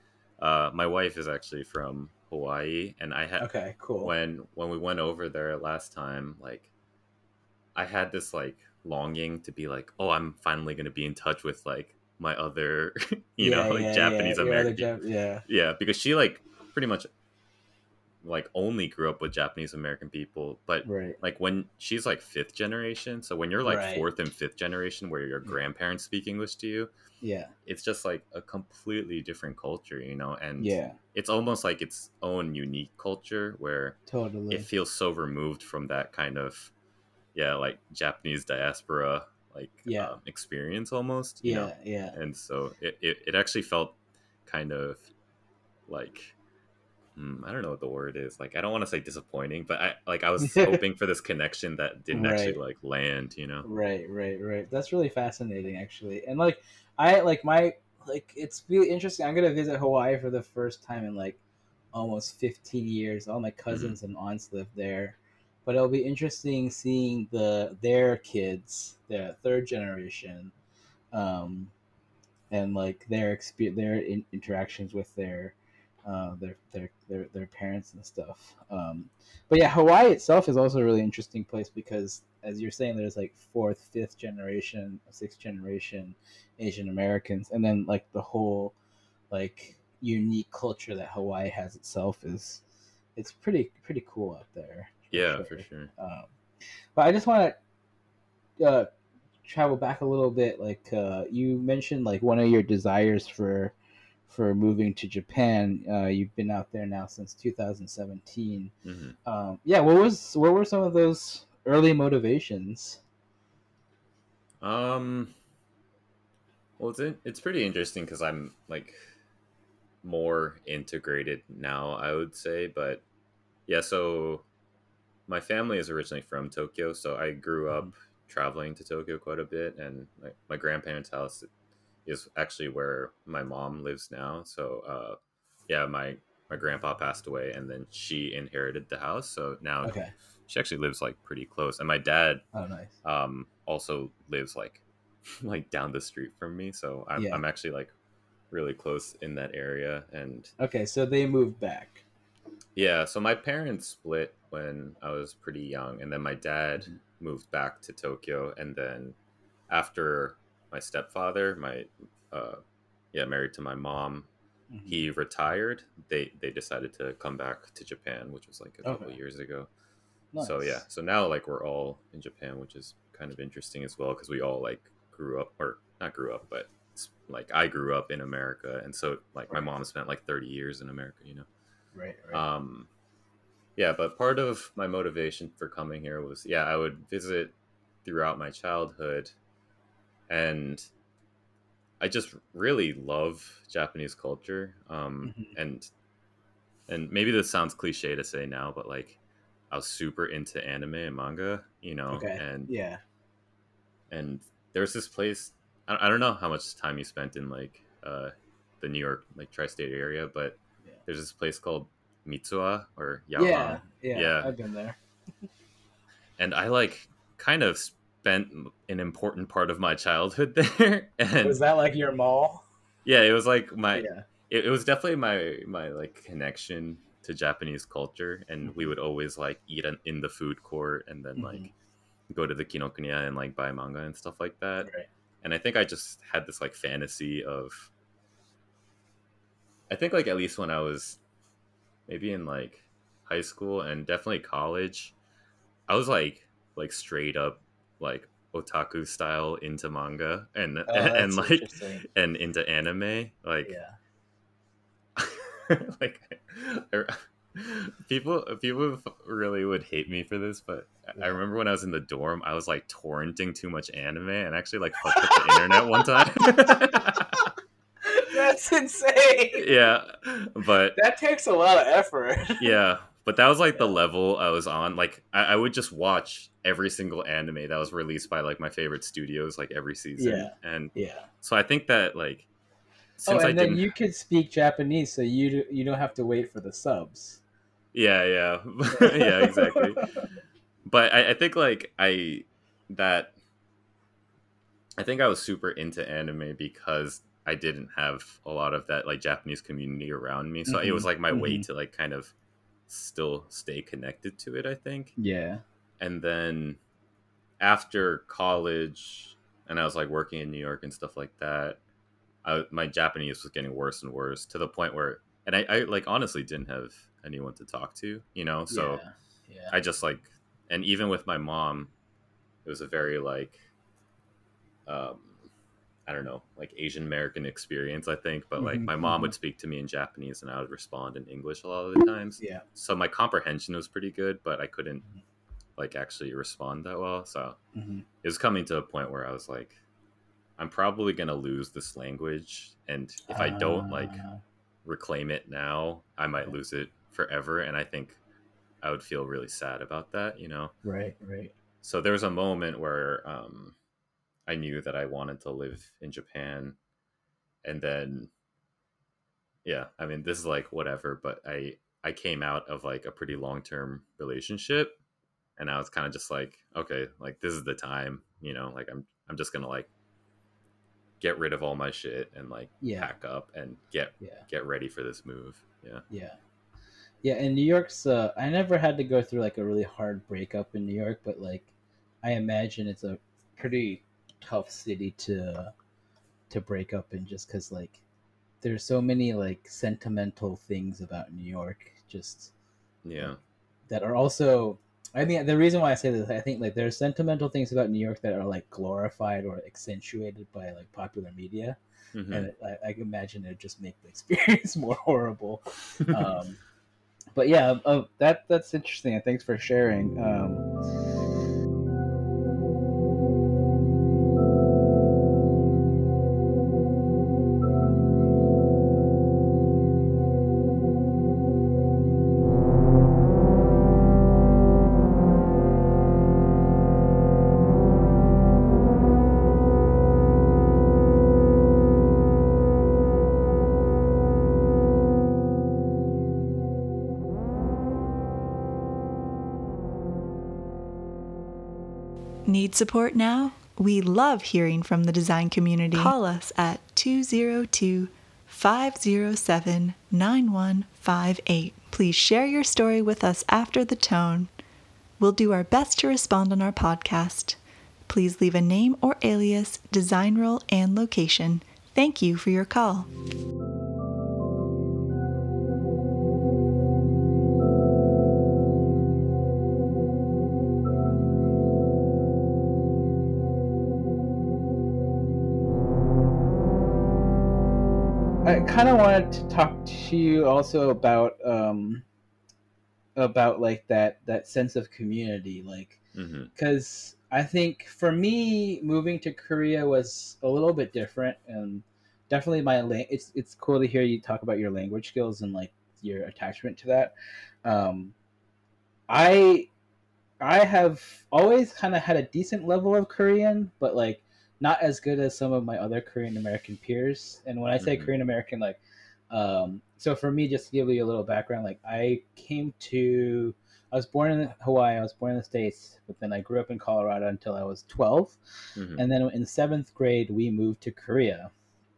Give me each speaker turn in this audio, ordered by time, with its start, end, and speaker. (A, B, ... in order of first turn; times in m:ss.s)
0:00.4-0:03.5 A
0:03.4-0:04.1 B
0:04.0-0:06.7 A
0:07.7-0:14.9 A
0:13.4-0:15.4 B
0:15.5-0:17.1 A
0:18.2-0:26.9 A
0:20.8-0:21.2 B
0:23.6-0:24.0 B
0:27.2-0:27.5 B
0:27.6-0:34.0 A
0:30.6-0:31.0 B
0:34.1-0:34.7 B
0:34.5-0:36.7 A
0:37.3-0:45.0 A
0:39.8-0:40.1 B
0:41.4-0:42.2 B
0:45.9-0:46.3 A
0:47.2-0:53.6 A
0:50.4-0:50.8 B
0:52.1-0:52.6 B
0:53.6-1:01.4 B
1:01.9-1:10.5 B
1:03.7-1:04.0 A
1:11.1-1:11.7 B
1:12.5-1:15.5 B
1:16.0-1:28.7 B
1:29.3-1:32.6 B
1:33.2-1:36.3 B
1:35.1-1:35.9 A
1:36.9-1:37.6 B
1:38.6-1:38.9 B
1:39.4-1:43.7 B
1:44.3-1:48.7 B
1:48.8-1:49.1 A
1:49.2-1:53.0 B
1:54.6-1:55.3 A
1:56.8-1:59.0 A
2:00.0-2:03.0 A
2:03.7-2:04.4 A
2:05.3-2:11.5 A
2:12.0-2:15.2 A
2:15.7-2:20.0 A
2:19.8-2:20.1 B
2:20.5-2:22.4 A
2:22.5-2:22.9 B
2:23.0-2:27.9 A
2:27.2-2:27.4 B
2:28.5-2:30.5 A
2:30.6-2:32.0 B
2:32.8-2:39.1 A
2:39.7-2:42.6 A
2:43.1-2:44.3 A
2:44.7-2:45.1 B
2:44.9-2:49.7 A
2:48.8-2:49.1 B
2:50.3-2:50.8 B
2:50.4-3:01.4 A
3:01.9-3:02.4 B
3:02.3-3:02.9 A
3:03.8-3:07.5 A
3:08.0-3:09.3 A
3:10.3-3:10.9 A
3:12.0-3:15.9 A
3:15.2-3:15.5 B
3:16.9-3:19.2 A
3:19.7-3:22.7 A
3:22.1-3:23.0 B
3:24.1-3:34.5 A
3:33.4-3:35.0 B
3:36.4-3:41.6 A
3:41.4-3:42.6 B
3:43.0-3:51.7 A
3:43.9-3:44.2 B
3:48.6-3:48.9 B
3:51.4-3:51.7 B
3:52.3-3:54.9 A
3:54.8-3:55.1 B
3:55.4-3:57.9 A
3:59.9-4:01.2 A
4:02.1-4:05.1 A
4:05.9-4:13.8 A
4:10.9-4:12.0 B
4:13.6-4:14.0 B
4:15.2-4:27.4 A
4:25.1-4:27.4 B
4:28.0-4:29.6 B
4:29.5-4:31.0 A
4:30.9-4:32.8 B
4:32.6-4:42.5 A
4:40.2-4:41.3 B
4:43.2-4:43.9 A
4:43.3-4:47.4 B
4:47.9-4:50.1 A
4:48.9-4:50.2 B
4:50.8-4:53.3 A
4:55.0-5:02.3 A
5:00.6-5:01.6 B
5:02.9-5:05.1 A
5:05.2-5:05.6 B
5:06.0-5:06.8 A
5:07.6-5:11.8 A
5:12.4-5:19.0 A
5:18.7-5:19.7 B
5:19.7-5:21.9 A
5:22.6-5:23.6 A
5:24.8-5:25.5 A
5:26.0-5:35.1 A
5:28.6-5:29.3 B
5:32.4-5:32.6 B
5:35.8-5:37.6 A
5:37.7-5:38.0 B
5:38.2-5:39.8 A
5:40.6-5:44.2 A
5:43.3-5:44.4 B
5:44.8-5:48.2 A
5:48.8-5:50.7 A
5:50.8-5:51.5 B
5:51.8-5:53.7 A
5:54.5-5:56.8 A
5:57.6-5:58.3 A
5:59.6-6:04.9 A
6:05.6-6:09.9 A
6:11.2-6:16.0 A
6:12.8-6:13.1 B
6:16.1-6:16.4 B
6:17.2-6:21.7 B
6:22.2-6:25.7 B
6:26.5-6:28.0 B
6:28.6-6:32.5 B
6:33.0-6:33.4 A
6:33.9-6:41.8 B
6:42.1-6:42.5 A
6:42.3-6:46.6 B
6:47.3-6:50.7 B
7:22.5-7:34.5 C
7:35.2-7:43.1 C
7:58.4-8:02.0 B
8:03.2-8:06.0 B
8:06.1-8:06.5 A
8:06.5-8:17.1 B
8:17.6-8:18.1 B
8:19.1-8:19.7 B
8:20.4-8:28.8 B
8:27.8-8:28.1 A
8:29.3-8:38.4 B
8:38.8-8:39.0 A
8:38.9-8:41.5 B